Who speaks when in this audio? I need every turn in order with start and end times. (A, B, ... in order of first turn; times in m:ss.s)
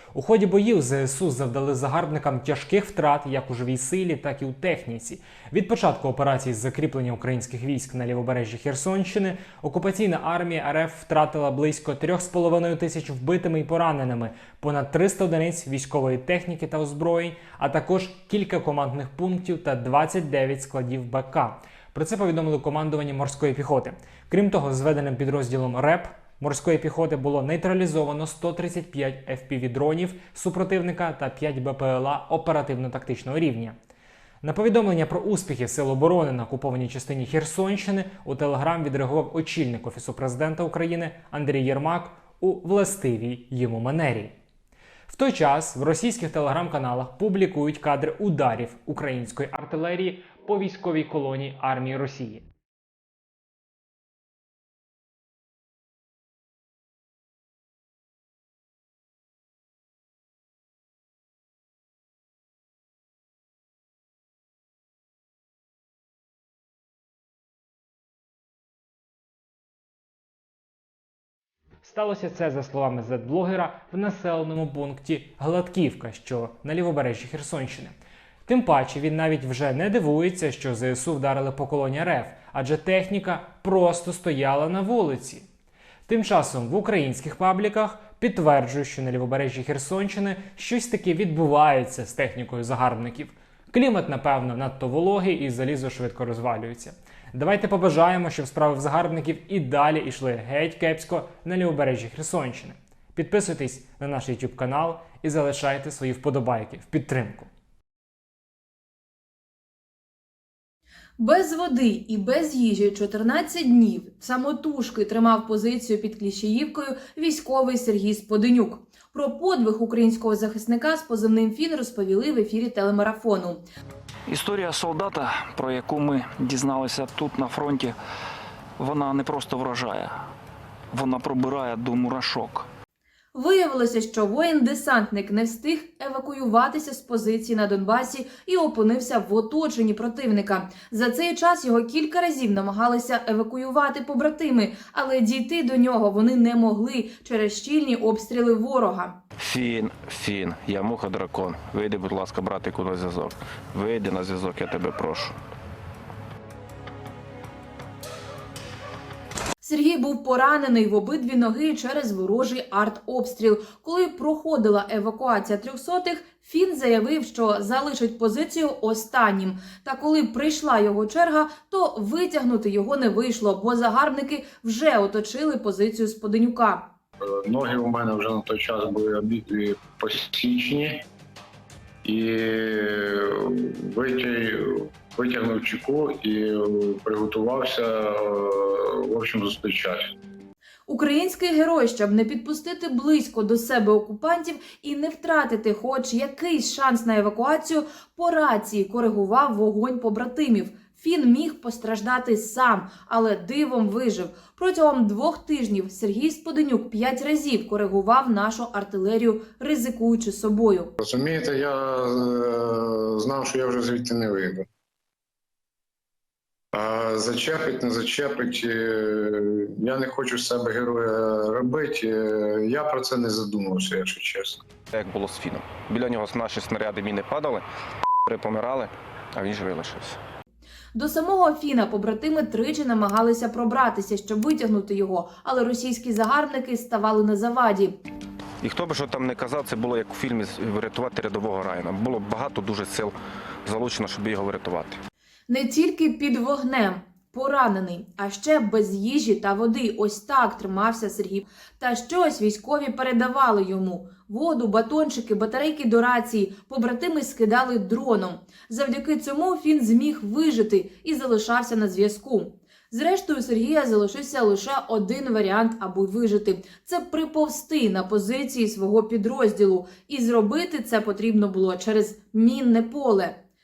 0:00.1-0:33.8 A
0:34.4-0:44.4 A
0:45.1-0:52.4 A
1:11.8-1:17.9 A
1:18.5-1:25.5 A
1:26.1-1:47.5 A
1:51.2-2:03.6 B
2:04.3-2:08.0 C
2:08.8-2:10.2 C
2:10.9-2:12.7 C
2:13.3-2:29.2 B
2:29.4-2:35.4 D
2:39.6-2:56.9 B
2:57.2-3:01.0 E
3:02.0-3:10.1 E
3:10.9-3:30.9 B
3:31.0-3:34.7 E
3:36.7-3:44.6 E
3:44.9-3:47.6 D
3:48.3-3:50.2 D
3:51.0-3:58.0 B
3:58.6-4:03.1 D
4:03.6-4:05.0 D
4:05.5-4:33.4 B